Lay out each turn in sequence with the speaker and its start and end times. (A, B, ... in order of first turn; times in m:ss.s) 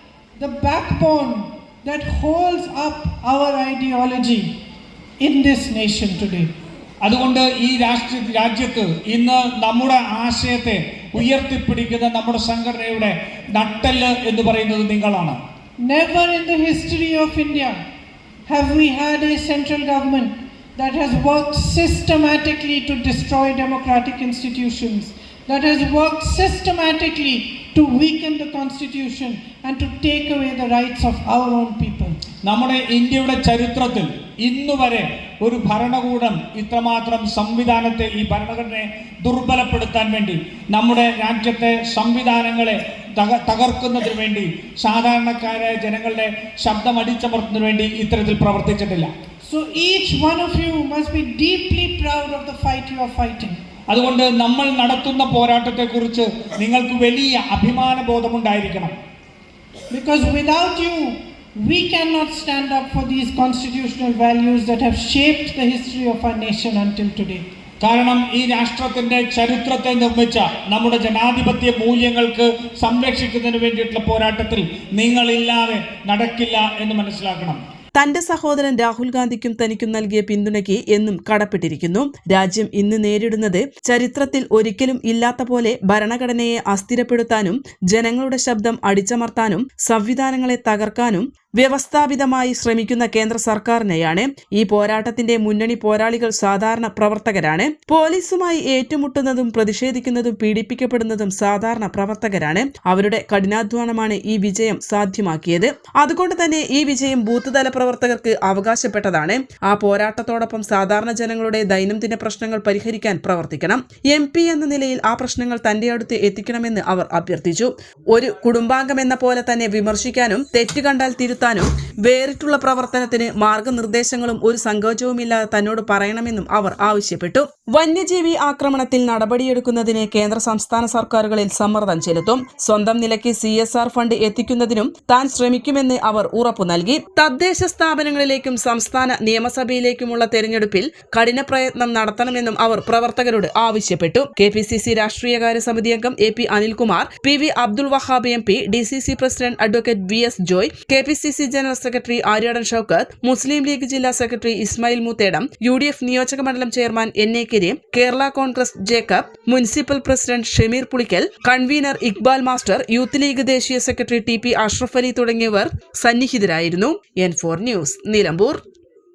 0:00.4-0:04.5 A
0:05.2-0:06.5 A
0:07.0-0:15.4 B
0:15.8-0:17.8 A
0:18.5-0:32.2 A
0:32.5-0:49.1 B
0:49.4-0:53.6 A
0:53.9-0:59.0 B
0:59.9-1:07.4 A
1:07.8-1:17.6 B
1:18.0-2:48.6 C